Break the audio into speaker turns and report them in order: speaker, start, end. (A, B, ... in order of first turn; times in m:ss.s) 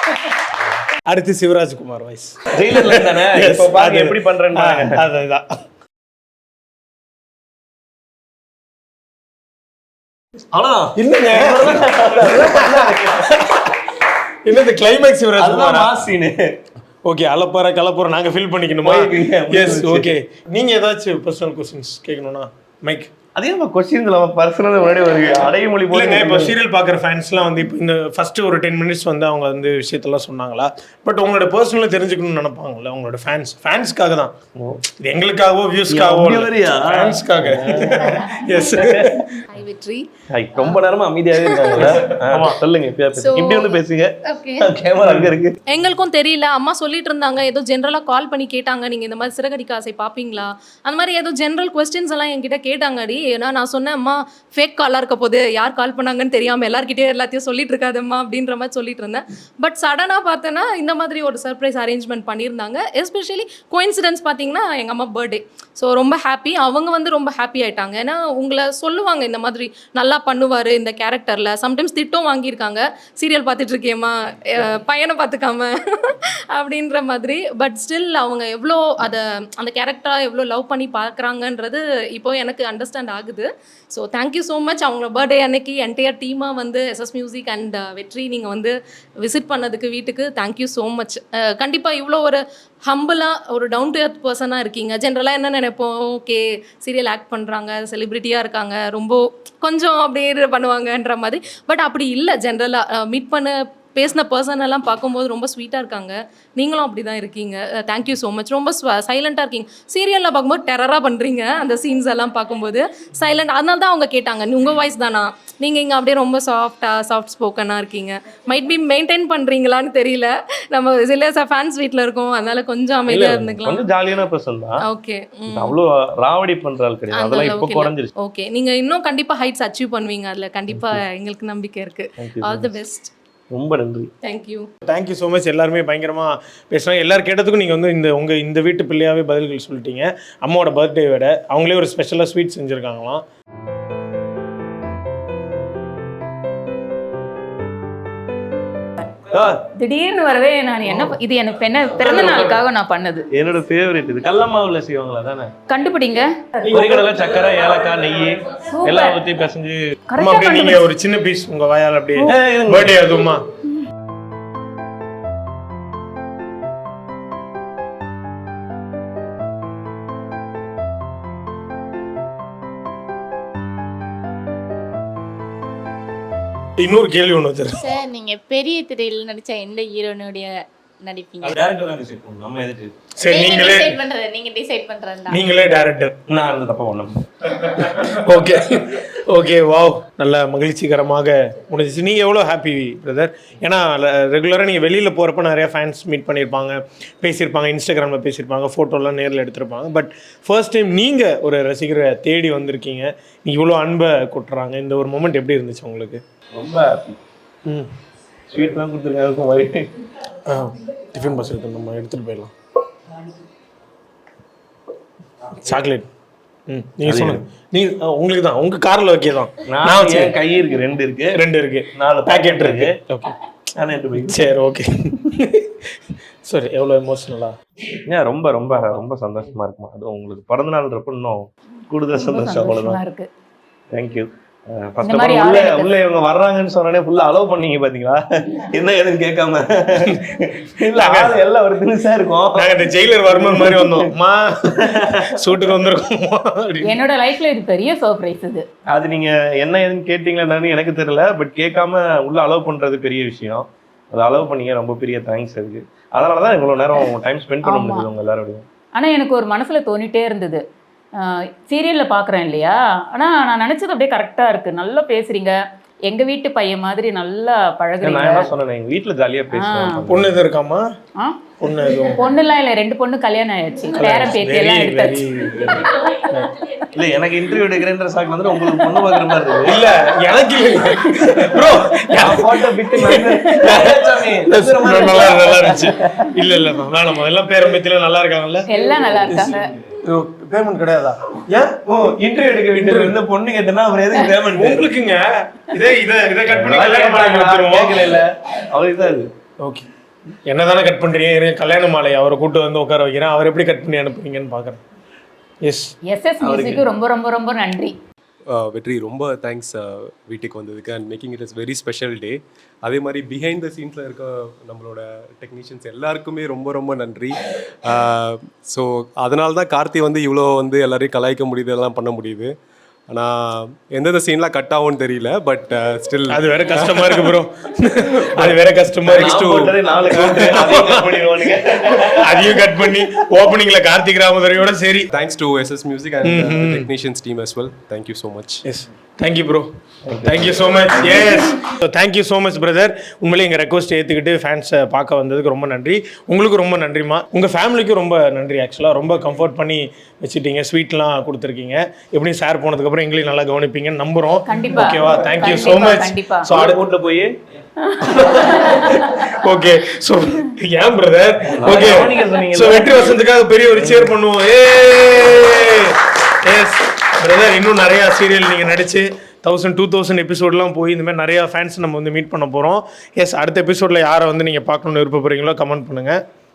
0:01.1-0:05.6 A
0:02.5-0:05.0 B
0:10.5-0:13.5 B
0:11.0-0:13.7 A
0:14.4-0:16.0 A
0:15.4-0:16.5 B
0:17.0-0:23.1 A
0:18.8-0:20.1 B
0:23.4-0:26.6 B
0:25.9-0:34.4 A
0:34.6-0:34.8 B
0:35.0-0:39.4 A
0:35.9-0:39.3 B
0:39.5-0:40.1 C
0:40.3-0:45.6 B
0:41.4-0:42.1 C
0:41.8-0:42.6 A
0:43.2-0:43.8 C
0:44.3-0:44.7 C
0:45.0-0:45.4 A
0:45.7-2:03.9 C
2:03.1-2:04.8 B
2:04.8-2:05.8 C
2:05.5-2:08.1 B
2:07.1-2:13.1 C
2:10.7-2:11.0 B
2:12.2-2:12.8 B
2:13.5-2:14.1 B
2:14.2-2:14.7 C
2:14.9-2:23.2 A
2:29.3-2:29.6 B
2:29.7-2:33.3 D
2:32.0-2:32.6 A
2:33.3-2:35.5 B
2:35.7-2:36.6 D
2:36.6-2:37.1 A
2:36.7-2:40.0 B
2:38.8-2:39.2 D
2:40.1-2:40.9 D
2:40.2-2:43.4 A
2:42.2-2:43.0 B
2:56.8-2:57.8 A
2:57.8-3:01.6 E
3:01.4-3:03.0 B
3:03.2-3:04.0 A
3:03.2-3:05.5 E
3:05.3-3:06.1 A
3:06.3-3:07.6 B
3:07.6-3:26.2 A
3:26.5-3:27.2 B
3:27.7-3:27.9 A
3:28.5-3:29.9 B
3:30.5-3:32.5 A
3:35.6-3:36.1 A
3:36.7-3:40.4 A
3:37.0-3:37.4 B
3:39.7-3:41.4 B
3:41.3-3:43.4 A
3:41.9-3:43.0 B
3:43.8-3:44.5 B
3:44.2-3:47.6 A
3:48.1-3:53.0 B
3:52.1-3:53.3 D
3:53.9-4:02.7 B
3:55.0-3:55.9 D
4:01.0-4:01.4 A
4:02.5-4:06.9 A
4:03.3-4:04.1 B
4:04.7-4:05.4 B
4:06.8-4:08.7 D
4:08.9-4:18.6 B
4:17.6-4:18.1 D
4:19.0-4:20.6 D
4:21.2-4:28.5 D
4:28.0-4:30.4 B
4:29.5-4:30.0 D
4:30.1-4:30.9 A
4:31.6-4:32.2 A
4:32.0-4:35.2 D
4:33.9-4:36.5 A
4:35.6-4:37.6 E
4:36.9-4:39.9 B
4:39.6-4:48.7 A
4:40.8-4:46.3 B
4:48.7-4:49.7 D
4:49.3-4:51.8 A
4:51.9-4:54.9 B
4:52.7-4:53.2 A
4:54.6-4:58.1 A
4:56.5-4:59.3 B
4:59.6-4:59.9 A
5:00.5-5:04.8 A
5:05.6-5:05.9 A
5:06.1-5:08.0 D
5:06.4-5:06.9 B
5:08.5-5:22.5 F
5:23.1-5:27.4 F
5:26.3-5:35.1 A
5:28.1-5:28.6 F
5:29.1-5:33.0 B
5:29.1-5:29.8 F
5:35.1-5:38.6 F
5:36.2-5:36.9 A
5:38.6-5:39.7 A
5:40.0-5:41.4 B
5:40.2-5:56.8 A
5:54.5-5:56.5 D
5:56.5-5:57.3 B
5:57.9-5:59.3 D
5:58.0-6:16.2 A
6:01.5-6:03.1 B
6:03.7-6:04.1 B